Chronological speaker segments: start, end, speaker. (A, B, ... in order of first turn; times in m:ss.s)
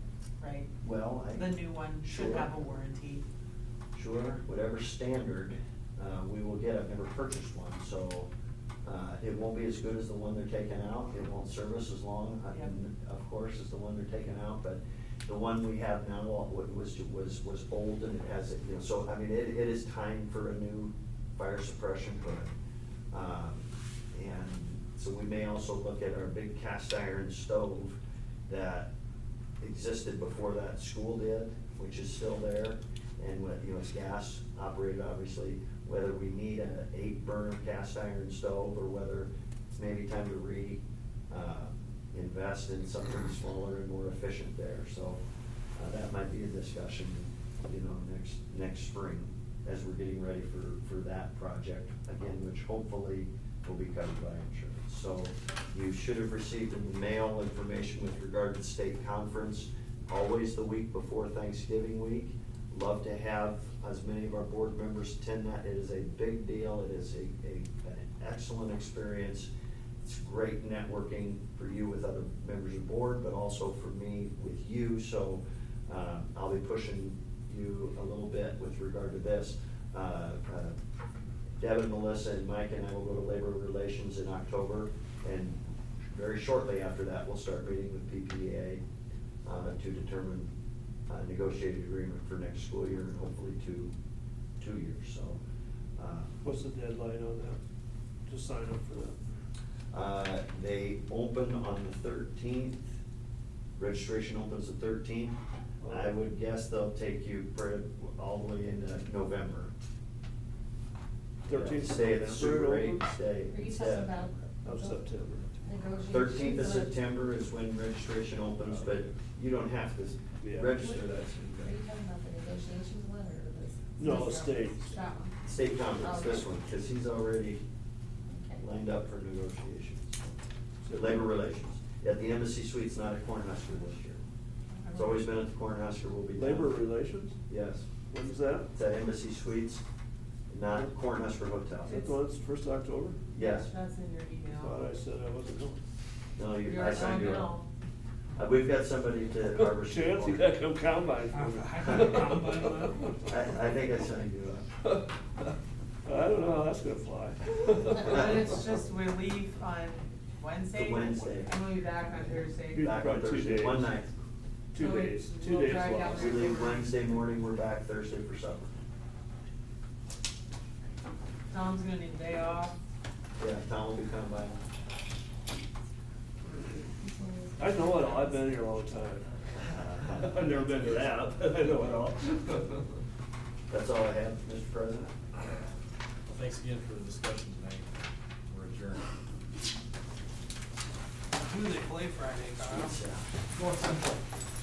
0:00.4-0:00.7 A
0:00.8-0:02.6 B
0:01.3-0:03.2 A
0:03.9-0:08.3 B
0:08.8-0:22.5 B
0:23.1-0:28.9 B
0:29.6-0:45.2 B
0:45.8-1:09.5 B
1:10.0-1:20.8 B
1:21.6-1:25.6 B
1:26.1-1:28.8 B
1:29.4-1:30.5 B
1:31.1-1:33.9 B
1:34.6-1:35.4 B
1:36.0-1:36.4 B
1:36.4-1:37.6 C
1:38.3-1:39.2 C
1:39.9-1:43.0 B
1:43.8-1:45.4 B
1:45.8-1:46.2 C
1:45.9-1:49.7 B
1:51.4-1:53.1 C
1:51.5-1:54.5 B
1:53.4-1:55.0 D
1:54.6-1:55.5 C
1:55.6-1:57.0 D
1:56.0-2:01.8 B
1:58.6-1:59.0 C
2:00.4-2:00.7 C
2:00.7-2:01.1 D
2:01.6-2:05.4 D
2:04.0-2:04.8 C
2:05.4-2:07.6 B
2:06.0-2:06.4 D
2:08.3-2:08.6 D
2:08.6-2:10.2 B
2:10.8-2:11.3 C
2:10.9-2:14.2 B
2:14.8-2:15.2 A
2:14.9-2:16.8 B
2:16.4-2:17.4 C
2:17.5-2:17.9 B
2:18.1-2:18.7 C
2:18.7-2:19.8 B
2:20.5-2:22.0 B
2:21.9-2:22.2 A
2:21.9-2:23.2 C
2:23.3-2:23.7 B
2:23.4-2:24.9 A
2:24.6-2:25.8 C
2:26.4-2:27.6 B
2:26.6-2:27.7 A
2:28.4-2:30.6 B
2:29.6-2:32.9 C
2:31.3-2:33.2 E
2:31.8-2:32.2 B
2:33.2-2:34.7 B
2:36.0-2:38.2 C
2:37.9-2:43.1 A
2:40.7-2:41.5 B
2:42.7-2:43.9 C
2:42.8-2:44.1 B
2:44.7-2:46.5 C
2:44.8-2:47.1 A
2:46.0-2:48.7 B
2:51.5-2:52.8 A
2:53.4-2:54.6 B
2:57.0-2:58.7 D
2:57.6-2:59.3 C
2:59.6-3:00.6 B
3:00.2-3:02.7 C
3:03.7-3:05.1 B
3:06.3-3:07.9 F
3:08.5-3:09.0 F
3:11.4-3:13.0 E
3:12.6-3:13.2 B
3:13.6-3:14.2 E